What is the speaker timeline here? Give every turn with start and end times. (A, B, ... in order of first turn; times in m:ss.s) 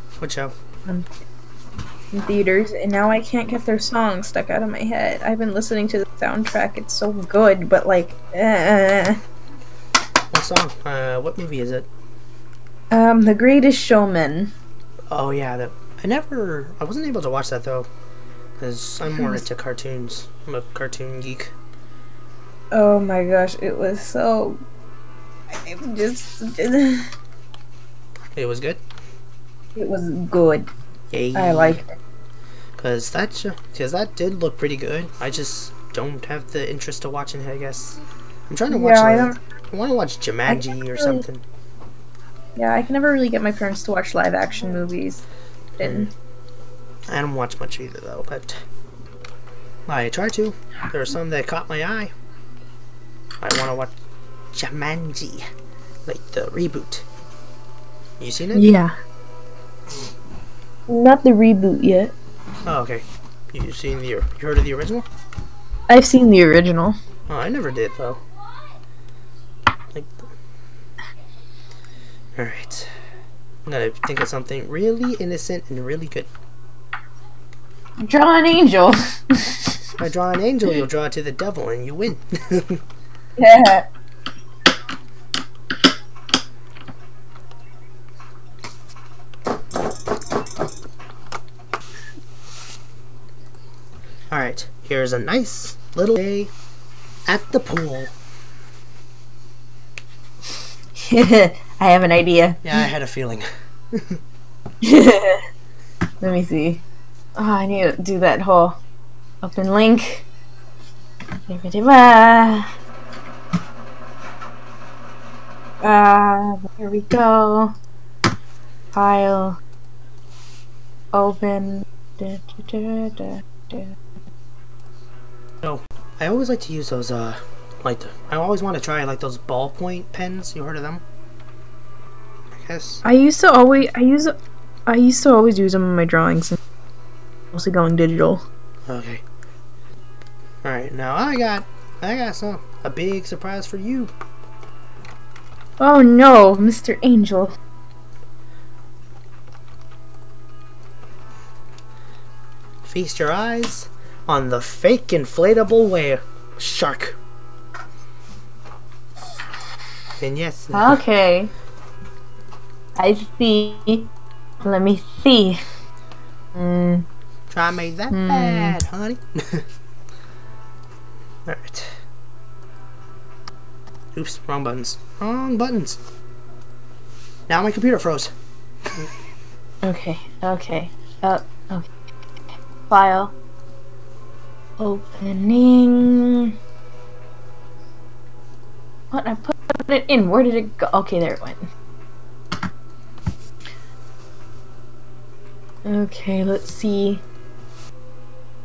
0:00.2-0:00.5 A
0:02.1-0:09.2 B
0:10.3-0:11.9 A
0:12.9-0:14.5 B
0:15.1-0:17.9 A
0:18.6-0:21.5 A
0:19.1-0:19.4 B
0:22.7-0:24.6 B
0:25.5-0:27.1 B
0:28.3-0:28.8 A
0:29.7-0:30.7 B
0:31.1-0:31.8 A
0:31.3-0:31.9 B
0:32.8-0:41.4 A
0:38.7-0:39.4 B
0:40.5-0:41.2 B
0:42.6-0:45.2 B
0:45.8-0:46.1 B
0:45.8-0:46.1 A
0:47.1-0:48.6 A
0:49.9-0:52.1 A
0:53.4-0:53.9 A
0:54.5-0:55.4 A
0:56.0-0:57.0 A
0:58.2-0:58.7 A
0:58.5-0:58.9 B
1:00.9-1:02.1 B
1:02.6-1:05.0 A
1:05.9-1:07.0 B
1:07.3-1:08.2 A
1:12.4-1:12.9 A
1:13.6-1:16.3 A
1:18.0-1:19.8 B
1:20.0-1:22.8 A
1:23.4-1:23.9 B
1:34.3-1:36.5 A
1:37.3-1:38.1 A
1:40.9-1:42.8 B
1:42.6-1:44.2 A
1:44.8-1:45.4 B
1:46.2-1:46.8 B
1:47.4-1:48.8 B
1:49.4-1:50.3 B
1:51.5-1:52.7 B
1:55.8-1:57.7 B
1:58.9-1:59.6 B
2:01.1-2:04.0 B
2:05.6-2:11.0 A
2:12.5-2:13.0 A
2:13.0-2:14.3 B
2:14.9-2:16.6 B
2:17.5-2:18.4 B
2:18.9-2:19.2 A
2:20.6-2:24.1 A
2:25.8-2:27.6 B
2:32.8-2:37.2 A
2:40.2-2:41.0 A
2:40.7-2:41.5 B
2:43.0-2:44.1 B
2:44.6-2:45.6 B
2:46.5-2:47.0 B
2:47.5-2:49.6 A
2:48.1-2:48.8 B
2:51.4-2:52.0 A
2:54.1-2:56.0 A
2:57.5-2:58.3 A
2:59.8-3:01.9 B
3:02.9-3:03.3 B
3:04.8-3:06.5 B
3:09.1-3:11.6 B
3:15.8-3:17.2 B